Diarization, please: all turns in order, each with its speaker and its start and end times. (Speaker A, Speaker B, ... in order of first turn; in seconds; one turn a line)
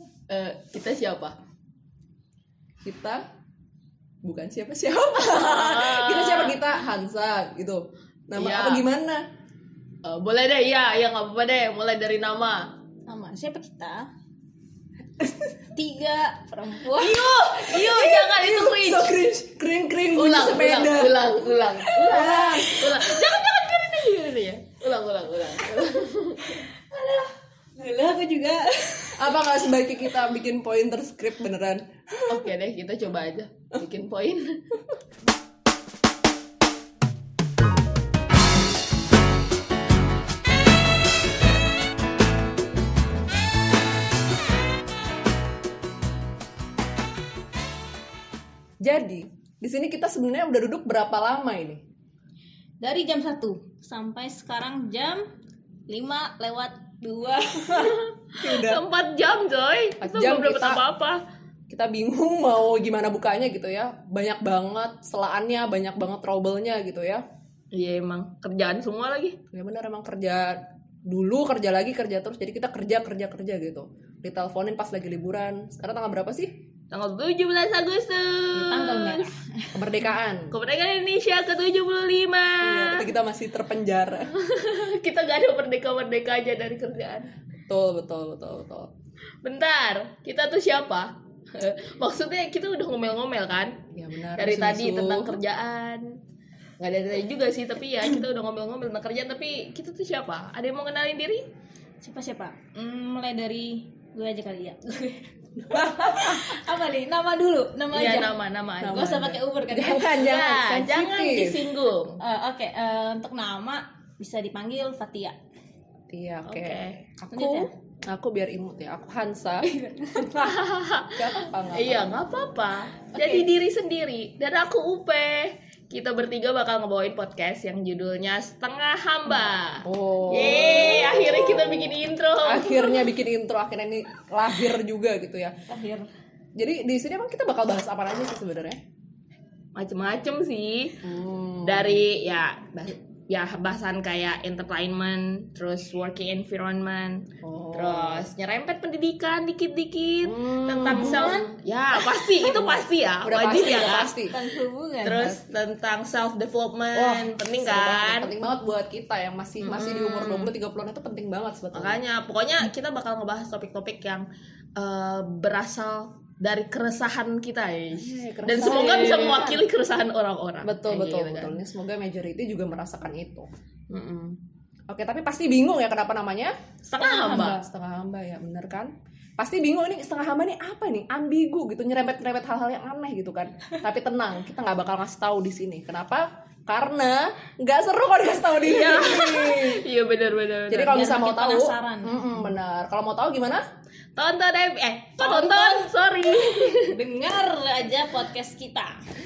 Speaker A: 0.3-1.3
Speaker B: 2.8-3.2
Speaker B: 4.2-9.2
Speaker A: 5.2-6.6
Speaker A: 8.3-8.8
Speaker A: 10.0-12.7
Speaker C: 13.1-14.1
Speaker C: 15.3-17.2
Speaker A: 16.9-19.2
Speaker B: 17.7-21.3
Speaker A: 20.1-26.6
Speaker B: 21.9-23.1
Speaker C: 22.1-22.5
Speaker C: 26.9-29.5
Speaker B: 29.1-32.5
Speaker A: 32.3-34.6
Speaker B: 48.8-51.8
Speaker C: 52.8-55.3
Speaker C: 55.9-57.9
Speaker A: 57.8-61.2
Speaker B: 58.4-58.8
Speaker B: 60.0-60.8
Speaker B: 61.7-67.2
Speaker A: 67.7-69.4
Speaker B: 69.5-76.5
Speaker A: 76.9-79.3
Speaker C: 78.5-79.8
Speaker B: 78.7-79.2
Speaker B: 79.7-80.5
Speaker A: 80.5-83.1
Speaker B: 82.6-84.3
Speaker A: 84.3-87.3
Speaker B: 87.7-88.9
Speaker A: 89.4-96.1
Speaker B: 93.9-95.4
Speaker A: 96.8-101.4
Speaker C: 102.0-108.3
Speaker B: 105.6-106.6
Speaker A: 107.9-109.0
Speaker B: 108.8-111.6
Speaker C: 108.8-110.2
Speaker A: 110.2-112.2
Speaker C: 112.2-115.4
Speaker B: 116.1-120.6
Speaker A: 116.5-117.0
Speaker C: 117.3-117.7
Speaker A: 120.3-133.1
Speaker B: 121.1-122.2
Speaker C: 123.1-123.5
Speaker B: 129.8-135.5
Speaker C: 135.7-136.1
Speaker B: 136.5-138.8
Speaker A: 139.8-141.0
Speaker B: 141.0-142.0
Speaker A: 141.6-154.2
Speaker B: 147.4-148.3
Speaker B: 150.2-151.4
Speaker C: 150.8-152.8
Speaker B: 153.2-154.3
Speaker C: 153.8-155.4
Speaker A: 155.0-158.3
Speaker B: 156.9-162.0
Speaker A: 159.6-160.5
Speaker A: 161.7-164.2
Speaker A: 164.8-171.6
Speaker B: 167.9-169.6
Speaker B: 170.6-173.5
Speaker A: 173.9-174.4
Speaker B: 174.9-176.5
Speaker A: 176.9-177.6
Speaker C: 177.0-177.6
Speaker B: 177.3-189.8
Speaker A: 188.6-191.0
Speaker B: 190.7-193.6
Speaker C: 190.9-192.2
Speaker A: 194.2-196.9
Speaker C: 195.2-195.9
Speaker C: 196.5-199.0